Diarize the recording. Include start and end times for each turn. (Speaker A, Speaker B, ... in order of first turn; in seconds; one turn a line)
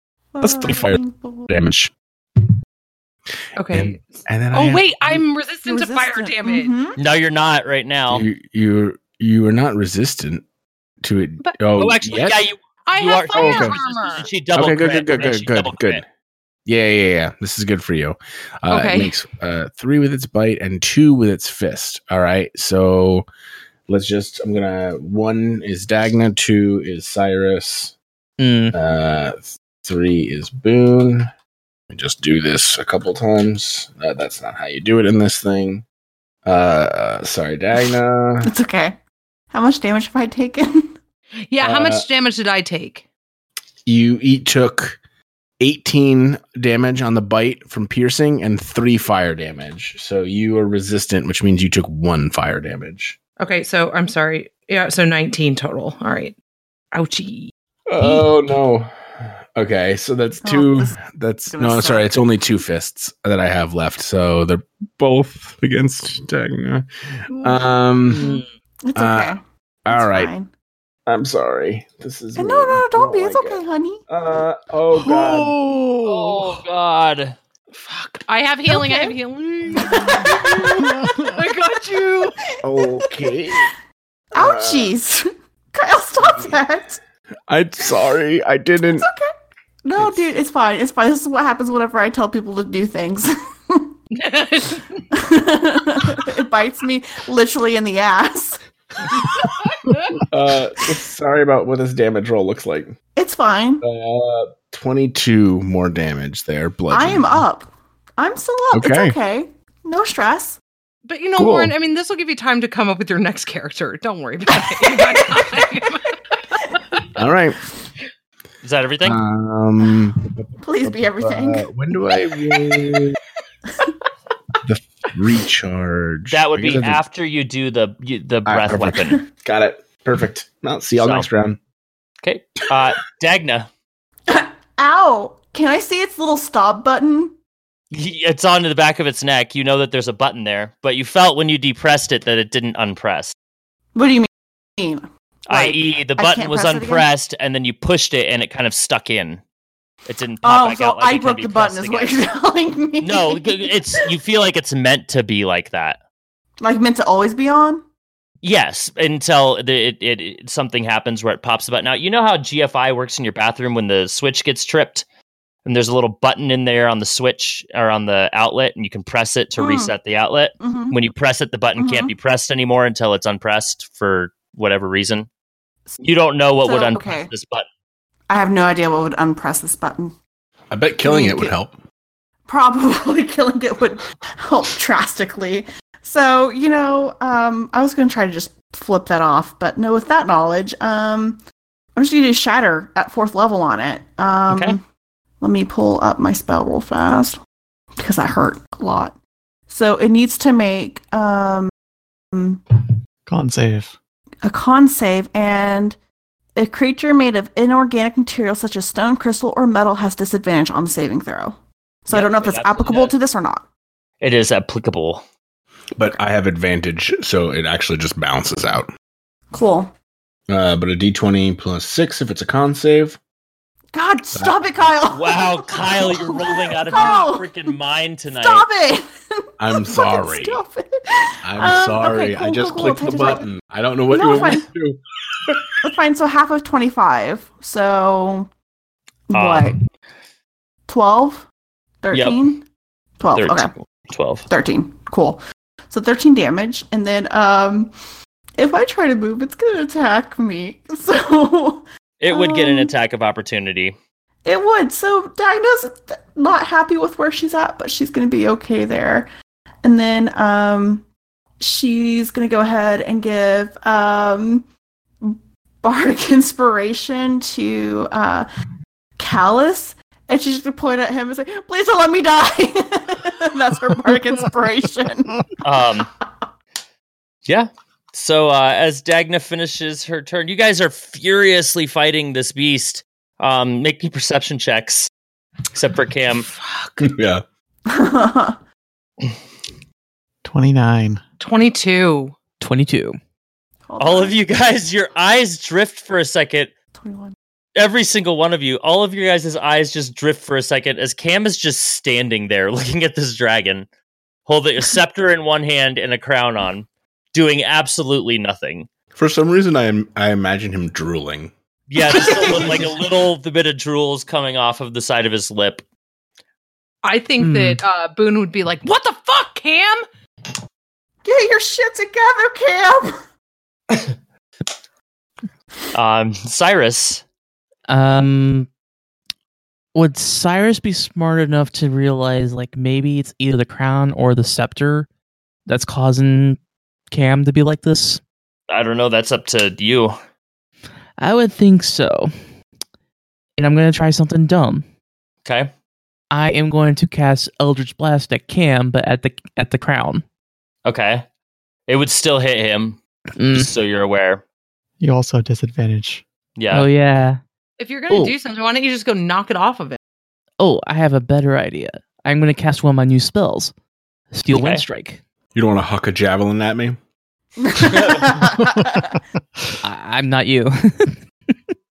Speaker A: 0.3-1.5
Speaker B: 0.4-1.9
Speaker C: 3.6-6.7
Speaker B: 3.7-5.2
Speaker A: 5.7-7.0
Speaker D: 7.0-8.3
Speaker B: 8.1-10.4
Speaker B: 11.0-12.5
Speaker D: 11.8-16.0
Speaker C: 12.9-14.3
Speaker B: 13.3-13.8
Speaker B: 14.5-16.0
Speaker B: 16.7-23.3
Speaker C: 18.7-19.1
Speaker B: 23.9-28.0
Speaker E: 28.4-28.8
Speaker B: 28.7-31.3
Speaker B: 31.9-35.9
Speaker B: 36.5-38.5
Speaker A: 38.4-39.0
Speaker A: 39.5-40.9
Speaker C: 41.5-43.0
Speaker B: 41.6-42.1
Speaker B: 43.9-45.0
Speaker B: 45.6-53.2
Speaker C: 53.4-56.4
Speaker C: 56.9-58.3
Speaker B: 57.9-68.2
Speaker A: 60.4-61.0
Speaker A: 61.5-62.1
Speaker A: 68.8-70.5
Speaker B: 69.0-70.3
Speaker B: 71.1-75.6
Speaker A: 72.4-74.0
Speaker F: 75.0-76.6
Speaker D: 76.0-77.3
Speaker C: 77.7-82.3
Speaker A: 78.7-79.2
Speaker A: 79.7-80.9
Speaker F: 80.8-81.4
Speaker B: 82.6-83.7
Speaker A: 84.3-87.0
Speaker B: 84.3-84.9
Speaker B: 86.2-86.6
Speaker B: 87.5-89.1
Speaker A: 89.0-89.3
Speaker A: 89.8-93.9
Speaker B: 90.0-90.2
Speaker C: 94.1-95.0
Speaker A: 95.2-98.6
Speaker C: 99.7-100.2
Speaker B: 100.3-103.0
Speaker A: 103.2-103.8
Speaker B: 103.8-107.4
Speaker A: 106.9-110.6
Speaker B: 108.7-109.2
Speaker C: 111.0-116.2
Speaker B: 111.4-111.7
Speaker A: 114.8-115.9
Speaker B: 117.2-117.6
Speaker D: 118.6-119.2
Speaker B: 119.0-123.2
Speaker A: 120.6-121.7
Speaker B: 124.6-127.0
Speaker D: 126.3-129.2
Speaker B: 128.5-131.6
Speaker D: 131.0-131.3
Speaker D: 132.2-133.7
Speaker A: 134.3-137.3
Speaker D: 137.9-143.3
Speaker A: 143.9-147.1
Speaker D: 145.5-149.4
Speaker D: 150.1-152.2
Speaker A: 150.4-154.0
Speaker D: 153.0-156.0
Speaker A: 156.6-157.8
Speaker D: 158.4-165.1
Speaker D: 165.7-175.3
Speaker A: 169.6-169.9
Speaker A: 170.6-171.0
Speaker A: 171.8-172.1
Speaker D: 176.0-177.7
Speaker A: 176.6-177.3
Speaker A: 178.3-180.1
Speaker B: 180.7-181.8
Speaker A: 181.1-181.5
Speaker A: 182.5-191.4
Speaker A: 192.0-194.8
Speaker D: 194.5-194.8
Speaker A: 195.4-197.4
Speaker A: 198.0-199.2
Speaker A: 199.7-201.7
Speaker A: 202.3-202.8
Speaker F: 203.3-204.0
Speaker A: 204.4-206.0
Speaker A: 206.6-213.7
Speaker D: 212.1-213.2
Speaker D: 214.2-215.2
Speaker B: 215.9-218.9
Speaker A: 219.5-219.9
Speaker B: 220.5-223.2
Speaker A: 223.9-227.7
Speaker B: 224.3-224.7
Speaker D: 225.1-228.7
Speaker A: 228.4-229.1
Speaker B: 229.6-230.6
Speaker A: 229.7-233.5
Speaker B: 231.4-235.7
Speaker A: 234.1-234.7
Speaker A: 235.8-238.5
Speaker A: 239.3-239.8
Speaker D: 239.3-239.7
Speaker A: 240.9-241.5
Speaker A: 242.0-242.7
Speaker D: 242.1-242.4
Speaker A: 243.2-243.7
Speaker D: 243.3-244.5
Speaker A: 244.5-247.9
Speaker A: 248.6-252.9
Speaker D: 252.2-253.9
Speaker A: 254.4-259.3
Speaker A: 259.8-261.1
Speaker A: 261.6-264.7
Speaker A: 265.2-268.5
Speaker A: 269.2-275.5
Speaker D: 275.6-276.1
Speaker D: 277.5-285.1
Speaker D: 285.7-286.5
Speaker C: 286.3-287.1
Speaker B: 287.0-287.4
Speaker A: 287.9-288.6
Speaker F: 290.4-291.2
Speaker C: 291.4-292.4
Speaker E: 292.6-293.2
Speaker A: 293.9-294.4
Speaker D: 294.0-296.7
Speaker A: 297.0-297.4
Speaker D: 297.8-303.9
Speaker D: 304.5-308.9
Speaker B: 309.1-311.5
Speaker D: 311.9-315.8
Speaker A: 312.2-312.9
Speaker C: 312.5-312.8
Speaker C: 317.0-320.1
Speaker E: 317.4-317.8
Speaker A: 321.2-323.2
Speaker D: 325.9-327.2
Speaker E: 327.9-328.7
Speaker E: 329.9-335.1
Speaker E: 335.7-336.6
Speaker E: 337.1-338.2
Speaker D: 338.7-340.2
Speaker E: 341.2-342.3
Speaker E: 343.6-344.8
Speaker D: 345.4-345.7
Speaker E: 346.3-350.2
Speaker D: 350.9-351.2
Speaker D: 351.9-353.0
Speaker E: 353.4-353.7
Speaker D: 353.5-354.4
Speaker F: 355.0-356.2
Speaker D: 356.6-356.9
Speaker E: 356.7-357.4
Speaker C: 357.8-360.0
Speaker E: 360.6-363.7
Speaker E: 364.3-365.2
Speaker D: 364.5-364.8
Speaker B: 365.5-367.0
Speaker A: 367.6-369.2
Speaker D: 367.9-368.3
Speaker F: 368.6-369.0
Speaker E: 369.8-371.2